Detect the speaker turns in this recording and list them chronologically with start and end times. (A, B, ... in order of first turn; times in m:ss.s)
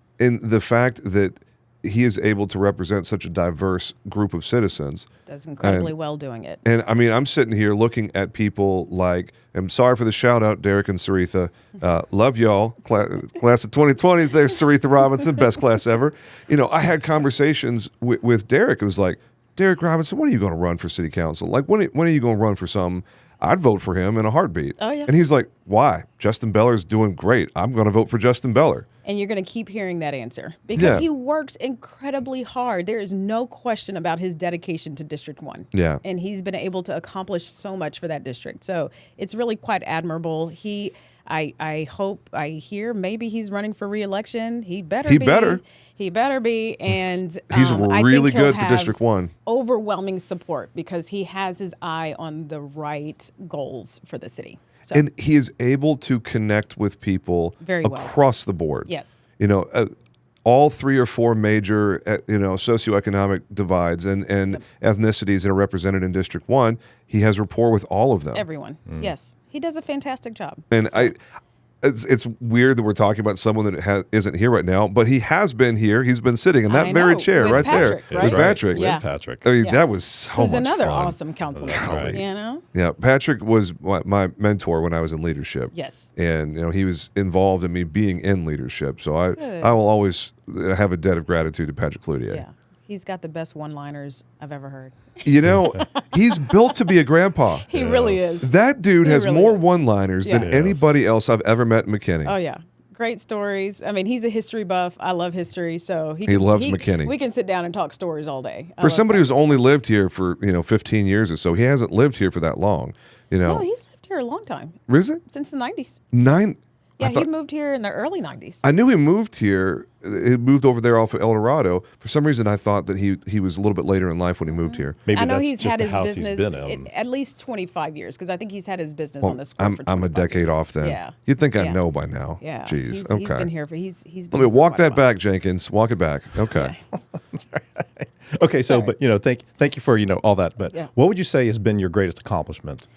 0:00.2-0:05.1 A
0:05.2-0:06.6 B
0:05.6-0:05.9 A
0:06.6-0:28.8 A
0:24.8-0:25.1 B
0:29.0-0:55.0 B
0:30.7-0:31.0 A
0:35.7-0:36.0 A
0:45.0-0:45.6 A
0:47.5-0:49.3 A
0:54.9-0:59.9 A
0:57.6-0:58.2 B
0:58.8-0:59.3 B
1:00.4-1:08.4 A
1:08.3-1:11.1 B
1:08.9-1:09.1 C
1:10.7-1:11.2 A
1:11.8-1:32.4 A
1:16.7-1:19.8 B
1:17.4-1:19.4 C
1:20.3-1:22.6 B
1:21.5-1:22.2 C
1:25.7-1:26.1 B
1:29.4-1:29.8 B
1:32.3-1:35.0 B
1:35.2-1:37.8 A
1:37.6-1:40.5 B
1:37.8-1:38.4 C
1:38.4-1:42.3 A
1:40.3-1:41.0 C
1:42.2-1:49.3 B
1:46.2-1:47.1 A
1:48.8-1:53.6 A
1:53.4-1:56.0 B
1:54.9-1:55.2 A
1:56.1-1:57.2 A
1:57.0-1:58.6 B
1:58.6-2:05.0 A
2:04.5-2:11.8 B
2:05.0-2:06.9 C
2:09.2-2:13.5 A
2:12.4-2:15.1 B
2:14.3-2:16.7 A
2:17.3-2:22.8 C